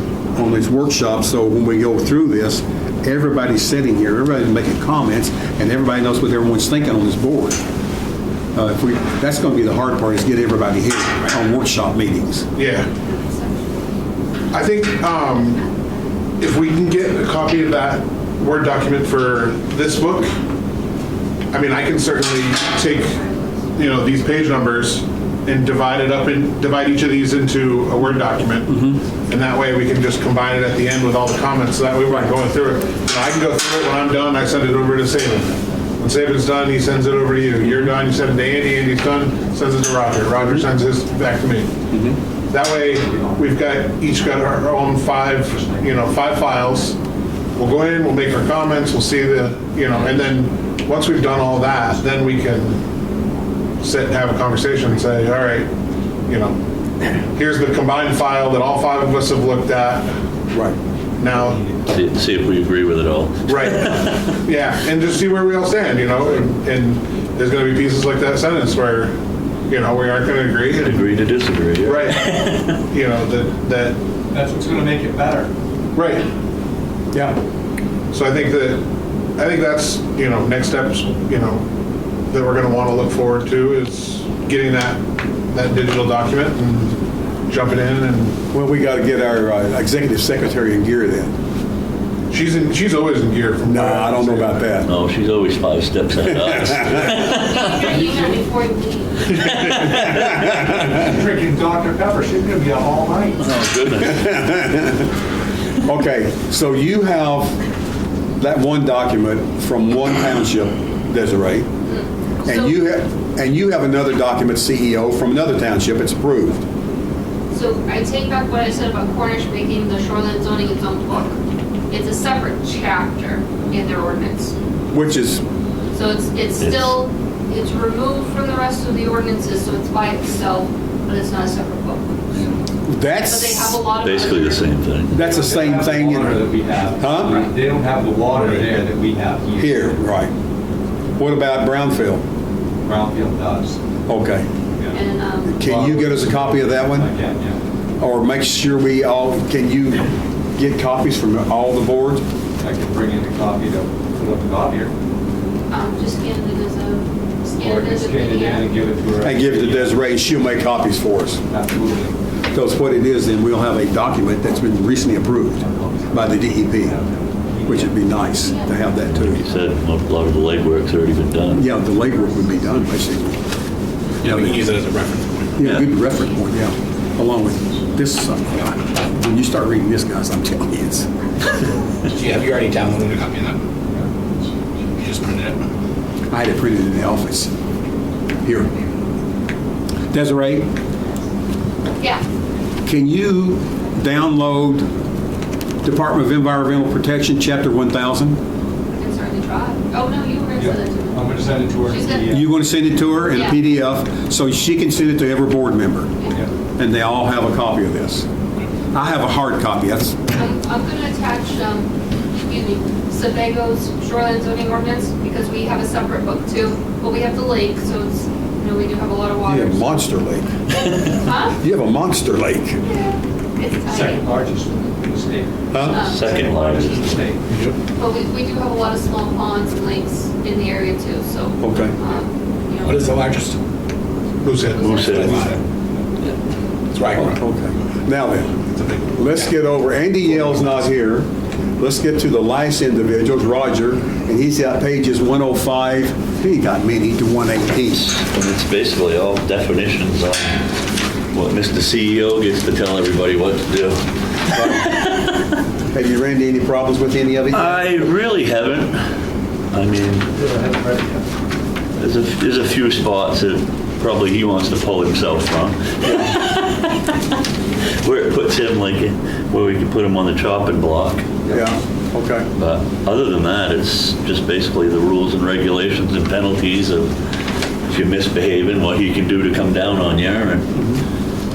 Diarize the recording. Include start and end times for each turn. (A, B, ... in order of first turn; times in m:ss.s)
0:00.3-0:07.6 A
0:08.6-0:12.5 A
0:12.6-0:12.9 B
0:12.8-0:13.9 C
0:14.5-0:15.6 B
0:16.4-0:20.4 B
0:21.5-0:23.2 B
0:22.8-0:23.8 C
0:23.7-0:41.7 B
0:28.7-0:29.0 A
0:32.1-0:32.3 A
0:32.3-0:33.0 C
0:37.6-0:38.0 A
0:41.9-0:42.2 A
0:42.5-0:47.0 B
0:42.8-0:43.9 D
0:44.4-0:46.3 D
0:47.6-0:52.8 B
0:53.8-0:55.7 B
0:56.3-0:56.6 B
0:57.4-1:00.2 B
1:01.2-1:01.6 B
1:01.9-1:04.2 E
1:03.5-1:11.0 B
1:10.8-1:12.8 E
1:11.8-1:14.0 B
1:14.3-1:15.5 D
1:16.0-1:16.3 B
1:17.1-1:17.4 A
1:18.1-1:18.9 B
1:19.4-1:21.7 B
1:22.3-1:28.4 B
1:28.5-1:31.3 A
1:32.3-1:34.6 B
1:33.6-1:34.9 A
1:34.8-1:38.1 E
1:36.3-1:37.2 A
1:37.1-1:39.7 C
1:39.4-1:40.8 E
1:40.0-1:40.4 A
1:40.3-1:43.4 D
1:43.4-1:44.3 E
1:44.0-1:45.1 A
1:45.8-1:47.6 A
1:48.4-1:51.7 A
1:51.8-1:52.8 C
1:52.4-1:56.6 A
1:57.5-2:01.4 C
2:01.9-2:04.5 C
2:04.9-2:05.4 A
2:05.9-2:12.4 C
2:06.6-2:07.0 E
2:12.9-2:13.8 A
2:13.2-2:14.8 C
2:14.0-2:15.3 E
2:15.1-2:17.5 A
2:15.2-2:20.0 D
2:17.2-2:17.5 C
2:18.4-2:18.7 F
2:19.6-2:20.3 A
2:21.2-2:22.2 A
2:22.8-2:23.8 D
2:24.1-2:24.5 A
2:24.8-2:25.0 D
2:24.9-2:25.6 C
2:25.4-2:27.1 A
2:25.6-2:27.6 D
2:28.0-2:32.2 A
2:32.6-2:34.9 D
2:35.7-2:38.8 C
2:37.6-2:40.1 D
2:39.2-2:41.4 A
2:41.4-2:42.2 D
2:42.5-2:47.0 A
2:45.6-2:48.0 D
2:47.6-2:49.4 A
2:48.4-2:48.9 C
2:49.0-2:51.7 E
2:51.5-2:53.4 A
2:54.2-2:55.9 F
2:54.2-2:54.7 A
2:55.6-3:01.1 A
2:56.0-2:56.4 C
3:02.2-3:03.6 F
3:04.9-3:05.6 F
3:06.3-3:07.5 A
3:08.4-3:08.8 A
3:10.1-3:10.7 A
3:12.8-3:14.9 A
3:15.8-3:18.4 A
3:18.9-3:22.4 C
3:20.6-3:22.5 D
3:22.3-3:26.1 A
3:23.3-3:23.6 C
3:26.2-3:26.5 C
3:26.8-3:28.3 A
3:28.9-3:30.3 A
3:30.3-3:31.9 C
3:32.4-3:40.0 C
3:39.5-3:40.5 A
3:41.2-3:41.6 C
3:41.6-3:42.8 A
3:42.8-3:45.0 C
3:43.9-3:47.4 D
3:45.7-3:46.1 A
3:45.8-3:46.5 C
3:46.0-3:47.4 E
3:47.5-3:47.8 F
3:48.0-3:53.4 C
3:51.6-3:51.9 A
3:52.8-3:53.6 F
3:54.4-3:55.4 B
3:54.7-3:55.3 C
3:54.8-3:55.6 E
3:55.2-3:55.6 D
3:55.2-3:55.6 F
3:56.9-3:57.4 F
3:57.1-4:08.1 A
4:08.0-4:10.6 E
4:11.3-4:15.4 E
4:14.5-4:14.9 A
4:15.9-4:18.0 A
4:17.5-4:19.1 E
4:19.7-4:20.3 E
4:20.3-4:21.3 D
4:22.0-4:27.1 E
4:26.0-4:26.4 A
4:28.0-4:31.3 E
4:31.4-4:31.7 D
4:31.5-4:32.5 A
4:32.6-4:37.1 E
4:37.9-4:40.7 E
4:40.7-4:41.0 A